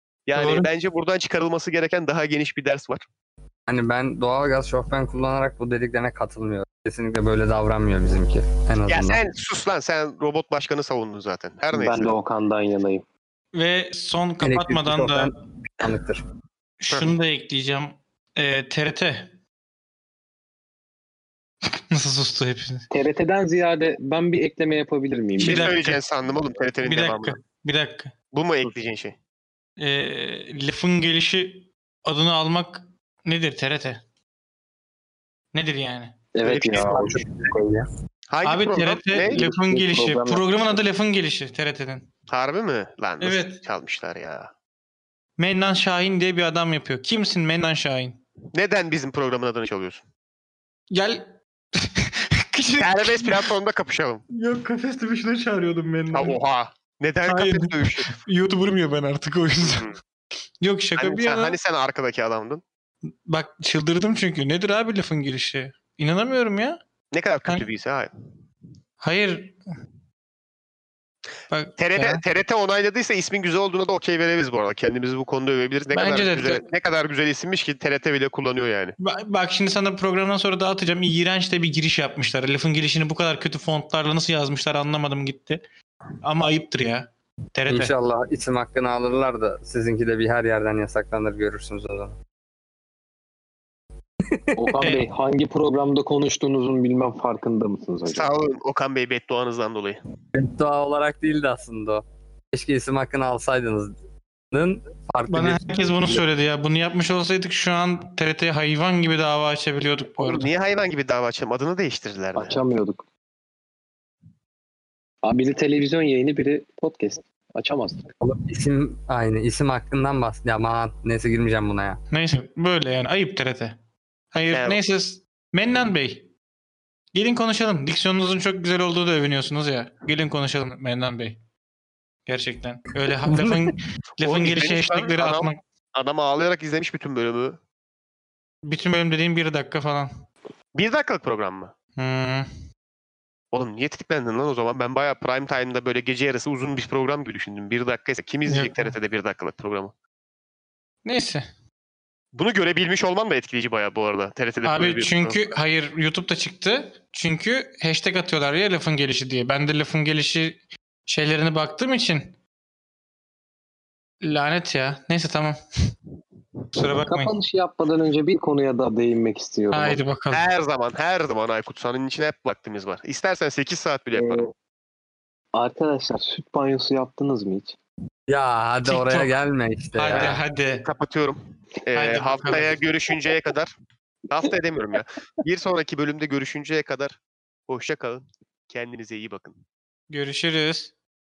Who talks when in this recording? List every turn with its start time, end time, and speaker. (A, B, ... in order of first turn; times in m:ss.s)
0:00.3-0:03.0 A
0:00.4-0:00.7 B
0:03.7-0:09.2 C
0:08.9-0:12.1 A
0:11.7-0:13.0 D
0:13.5-0:15.3 B
0:14.4-0:16.2 C
0:16.8-0:19.3 B
0:16.9-0:17.2 A
0:21.7-0:22.9 B
0:22.9-0:25.6 D
0:25.4-0:26.0 B
0:25.4-0:27.4 A
0:26.8-0:28.1 B
0:28.3-0:29.2 A
0:29.8-0:34.0 B
0:35.5-0:36.2 B
0:36.4-0:37.9 D
0:36.4-0:37.3 A
0:38.3-0:39.5 A
0:38.4-0:42.1 B
0:39.3-0:40.8 D
0:42.3-0:44.5 A
0:43.2-0:43.6 B
0:45.4-0:48.2 B
0:48.5-0:50.0 A
0:50.9-0:53.5 B
0:52.8-0:54.2 A
0:54.3-0:56.4 B
0:56.1-0:58.2 A
0:57.3-0:59.9 B
0:59.6-1:00.0 A
1:00.6-1:01.6 B
1:01.0-1:02.6 A
1:03.3-1:06.8 B
1:07.1-1:08.1 A
1:09.0-1:09.6 B
1:11.5-1:12.2 B
1:11.8-1:19.0 A
1:15.9-1:16.6 B
1:19.0-1:25.6 B
1:26.2-1:27.9 B
1:27.7-1:32.2 C
1:34.2-1:34.7 C
1:34.6-1:38.3 D
1:38.1-1:40.0 A
1:40.3-1:44.0 C
1:44.5-1:46.2 C
1:45.3-1:50.5 B
1:50.2-1:52.6 A
1:52.4-1:53.1 D
1:55.2-1:58.1 D
1:58.2-2:02.0 C
2:02.1-2:03.8 B
2:04.3-2:06.3 B
2:04.5-2:04.8 A
2:07.1-2:11.4 B
2:12.3-2:15.6 B
2:13.3-2:13.7 C
2:14.2-2:17.6 A
2:18.7-2:20.1 B
2:20.8-2:21.7 A
2:22.0-2:22.5 B
2:23.5-2:29.9 A
2:28.5-2:29.0 B
2:31.0-2:31.5 B
2:32.3-2:35.4 A
2:34.6-2:42.4 B
2:44.2-2:45.9 B
2:46.7-2:47.3 B
2:47.1-2:50.0 D
2:49.7-2:50.5 B
2:50.3-2:54.5 A
2:54.1-2:54.5 D
2:55.5-2:57.8 D
2:58.3-3:00.4 C
2:58.8-2:59.3 B
3:00.0-3:00.9 B
3:00.8-3:03.7 A
3:01.9-3:02.8 B
3:04.3-3:09.6 A
3:10.1-3:10.9 B